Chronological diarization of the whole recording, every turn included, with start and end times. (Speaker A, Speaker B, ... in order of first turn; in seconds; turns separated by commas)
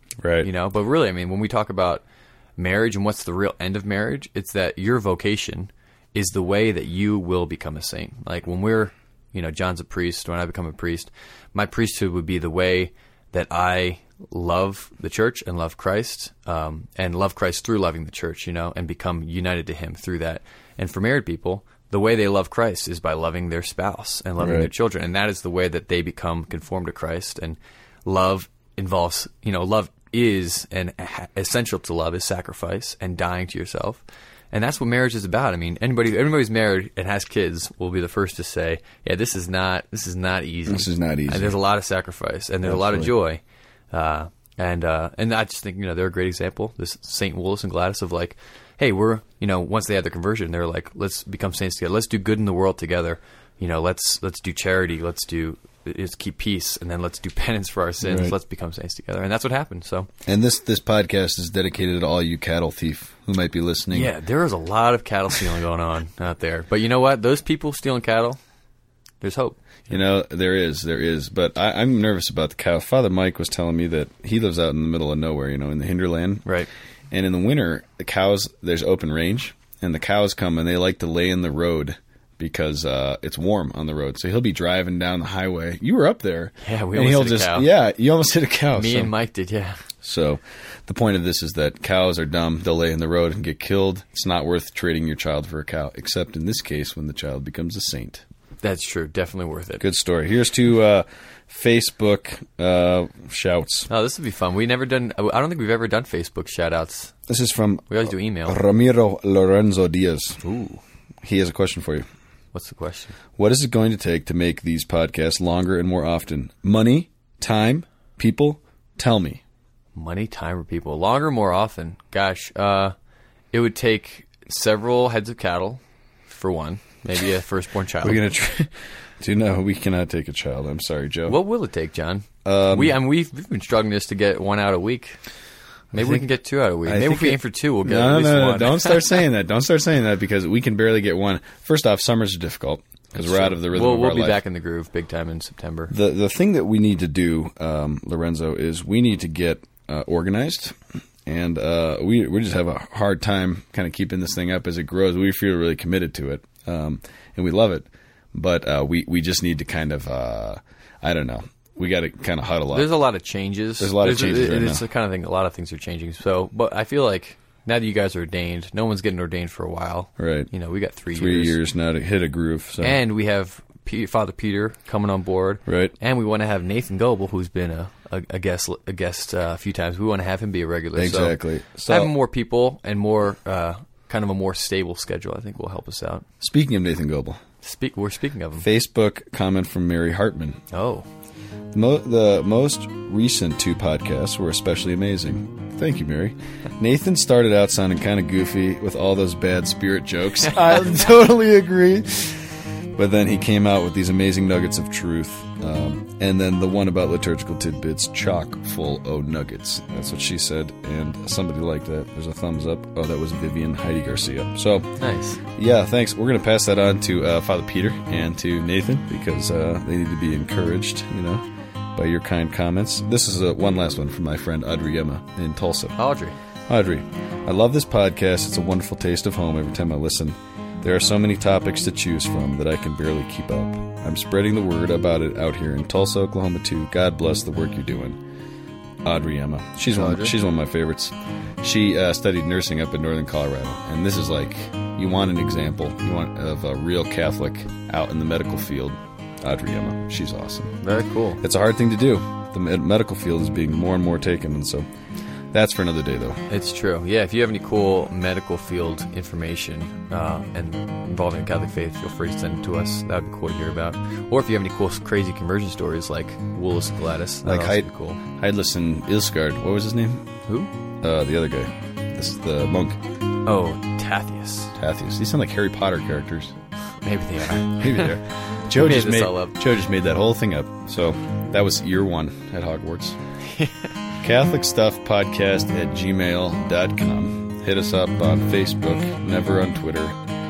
Speaker A: 0.2-0.5, Speaker B: 0.4-2.0, Speaker B: 2.6-60.1, Speaker A: 24.4-24.7, Speaker A: 40.6-41.6, Speaker A: 42.6-43.1, Speaker A: 58.0-58.4, Speaker A: 60.2-64.2, Speaker B: 63.9-68.4, Speaker B: 69.2-69.6, Speaker A: 69.9-76.5, Speaker A: 77.1-89.1, Speaker B: 86.6-87.7, Speaker B: 88.7-89.8, Speaker A: 90.0-98.2, Speaker B: 98.6-99.8, Speaker A: 99.8-103.9, Speaker B: 103.9-107.1, Speaker A: 107.3-110.4, Speaker B: 107.9-108.6, Speaker B: 110.4-110.8, Speaker A: 111.2-112.0, Speaker B: 112.5-113.1, Speaker A: 113.4-119.4, Speaker B: 119.9-122.9, Speaker B: 123.5-128.2, Speaker A: 128.0-131.4, Speaker B: 131.3-135.2, Speaker A: 132.4-133.0, Speaker B: 135.9-139.1, Speaker A: 135.9-136.2, Speaker A: 136.8-144.4, Speaker B: 143.2-145.9, Speaker A: 145.9-163.0, Speaker B: 162.7-171.6, Speaker A: 163.8-164.8, Speaker A: 170.2-170.5, Speaker A: 171.1-173.0, Speaker B: 172.8-186.2, Speaker A: 175.7-175.9, Speaker A: 180.9-182.1, Speaker A: 186.4-187.4, Speaker B: 187.6-188.7, Speaker A: 188.6-190.6, Speaker B: 190.7-191.1, Speaker A: 191.7-214.9, Speaker B: 215.0-215.4, Speaker A: 215.5-221.4, Speaker A: 221.9-226.0, Speaker B: 226.0-226.4, Speaker A: 226.7-238.2, Speaker A: 239.0-250.8, Speaker B: 239.9-240.4, Speaker B: 250.8-251.4, Speaker A: 251.4-254.8, Speaker A: 255.5-256.4, Speaker B: 256.5-268.2, Speaker A: 267.4-270.2, Speaker A: 271.0-273.0, Speaker B: 273.4-274.7, Speaker A: 274.7-276.5, Speaker B: 277.0-278.2, Speaker A: 277.6-283.2, Speaker B: 278.7-279.6, Speaker B: 283.5-283.9, Speaker A: 284.2-290.1